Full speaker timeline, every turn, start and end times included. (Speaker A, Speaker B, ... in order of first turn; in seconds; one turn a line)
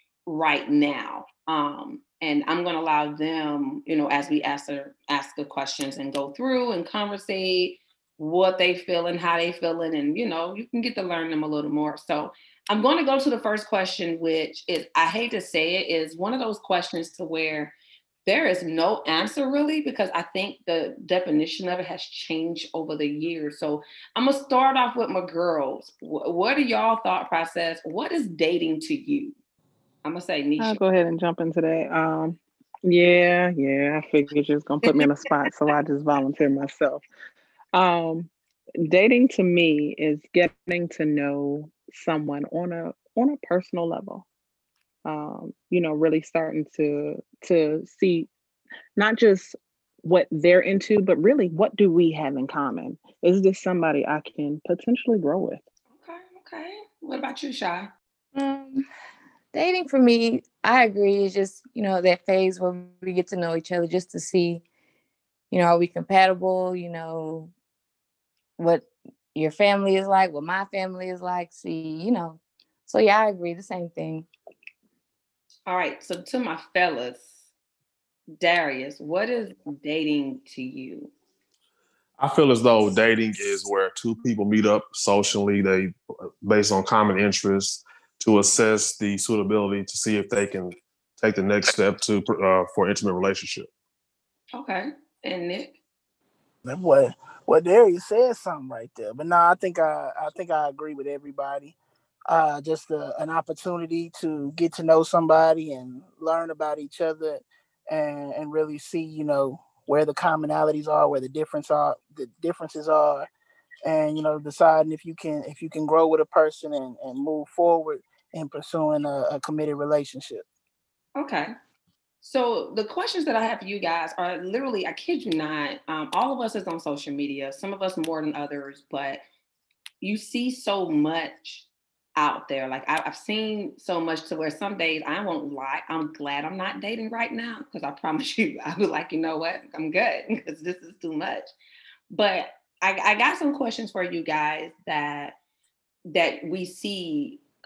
Speaker A: 0.3-29.4
Speaker A: 30.0-30.8
Speaker B: 30.6-37.0
Speaker A: 34.8-35.1
Speaker B: 37.7-44.3
Speaker B: 45.0-48.3
Speaker B: 49.0-55.6
Speaker A: 56.0-57.9
Speaker C: 58.4-58.9
Speaker C: 59.5-64.6
Speaker C: 65.5-67.5
Speaker C: 68.6-74.3
Speaker A: 75.7-77.3
Speaker A: 78.4-81.1
Speaker D: 82.2-93.7
Speaker A: 94.5-95.8
Speaker E: 96.6-101.8
Speaker E: 102.3-113.3
Speaker E: 113.8-120.5
Speaker A: 121.2-121.5
Speaker A: 122.2-129.2
Speaker A: 130.0-141.5
Speaker A: 142.1-145.4
Speaker A: 146.1-147.5